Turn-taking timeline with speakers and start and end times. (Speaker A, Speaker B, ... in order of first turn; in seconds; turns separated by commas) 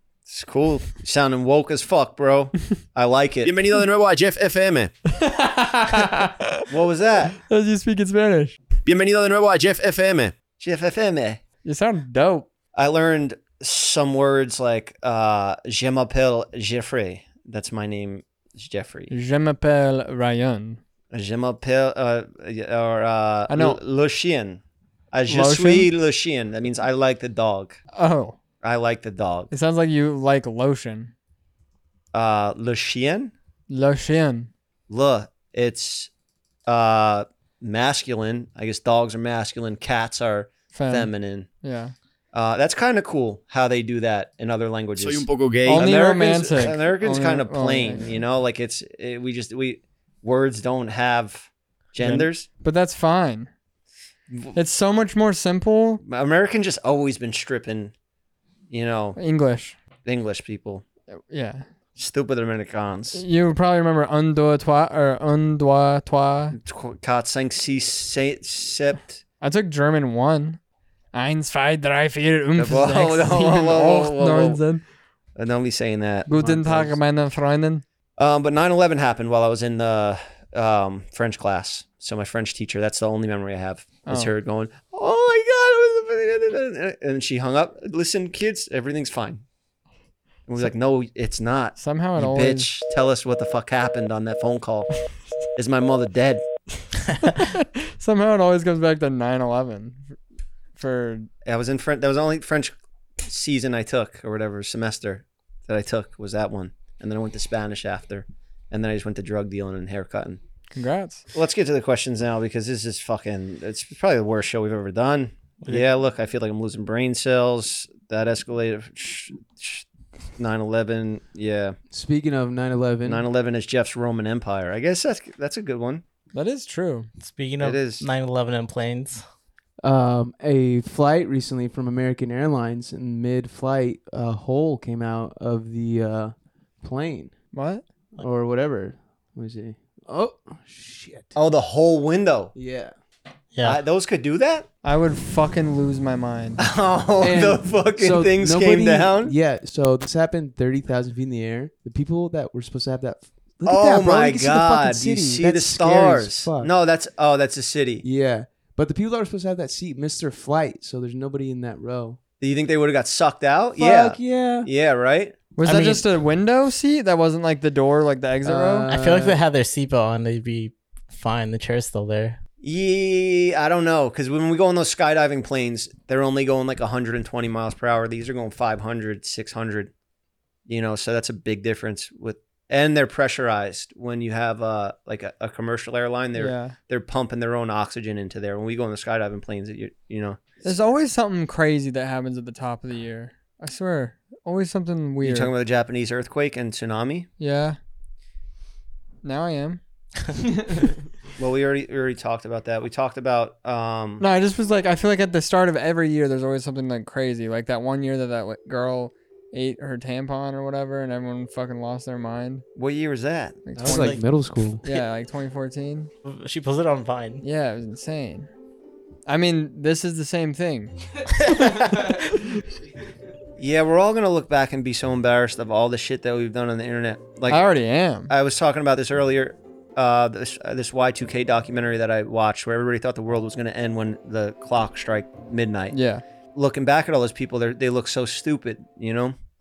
Speaker A: 0.3-3.6, Speaker B: 3.4-4.9, Speaker C: 5.1-6.7, Speaker A: 6.7-7.3, Speaker C: 7.3-8.6, Speaker B: 8.8-10.4, Speaker A: 10.6-11.4, Speaker C: 11.6-12.5, Speaker A: 12.8-19.1, Speaker C: 19.1-20.8, Speaker A: 21.1-27.8, Speaker C: 23.5-23.8, Speaker C: 25.3-25.9, Speaker C: 27.9-28.4, Speaker A: 28.6-29.5, Speaker C: 29.5-31.1, Speaker A: 32.1-33.3, Speaker C: 33.7-34.5, Speaker A: 34.9-36.1, Speaker A: 36.7-41.5, Speaker C: 40.7-41.9, Speaker A: 42.3-52.5, Speaker B: 45.0-45.9, Speaker C: 45.6-48.2, Speaker C: 52.0-53.5, Speaker A: 54.3-54.6, Speaker C: 54.5-56.0, Speaker A: 56.0-57.9, Speaker A: 58.7-59.2, Speaker C: 59.2-59.8, Speaker A: 60.0-60.8, Speaker C: 61.1-61.7, Speaker A: 62.0-63.2, Speaker C: 63.1-66.6, Speaker A: 66.5-69.2, Speaker C: 69.4-70.6, Speaker C: 71.1-74.8, Speaker A: 72.6-74.6, Speaker A: 75.4-76.3, Speaker C: 76.3-77.8, Speaker D: 76.3-77.0, Speaker A: 78.2-89.4, Speaker C: 84.0-84.3, Speaker A: 90.5-94.9, Speaker C: 91.8-92.7, Speaker A: 95.6-96.4, Speaker C: 97.2-100.2, Speaker C: 100.8-101.3, Speaker A: 101.5-110.4, Speaker C: 110.7-111.3, Speaker A: 111.3-119.9, Speaker A: 120.4-121.8, Speaker D: 121.9-123.3, Speaker A: 123.0-126.0, Speaker C: 126.3-127.1, Speaker E: 127.2-129.2, Speaker A: 127.6-128.0, Speaker D: 129.8-137.4, Speaker C: 137.5-137.8, Speaker D: 138.2-141.3, Speaker A: 141.3-142.5, Speaker D: 142.6-142.9, Speaker E: 143.5-143.8, Speaker A: 143.6-144.7, Speaker C: 144.8-146.6, Speaker A: 146.6-149.3, Speaker D: 147.2-156.7, Speaker A: 153.7-158.1, Speaker D: 158.0-162.2, Speaker A: 162.4-166.0, Speaker D: 163.8-164.7, Speaker C: 165.6-168.9, Speaker D: 168.4-169.4, Speaker E: 168.9-172.4, Speaker A: 172.6-179.9, Speaker A: 180.7-190.7, Speaker C: 186.3-186.8, Speaker C: 190.6-195.5, Speaker A: 195.2-197.3, Speaker C: 197.4-197.8, Speaker C: 199.2-199.8, Speaker A: 201.4-204.3, Speaker C: 204.2-212.7, Speaker A: 212.8-213.6, Speaker C: 213.7-214.2, Speaker D: 213.8-214.8, Speaker E: 213.8-214.2, Speaker C: 214.8-216.1, Speaker E: 216.2-217.4, Speaker C: 217.4-218.5, Speaker C: 219.3-220.9, Speaker C: 221.4-222.6, Speaker A: 223.6-227.7, Speaker C: 227.5-228.3, Speaker A: 228.3-236.0, Speaker C: 235.9-236.2, Speaker A: 236.5-239.3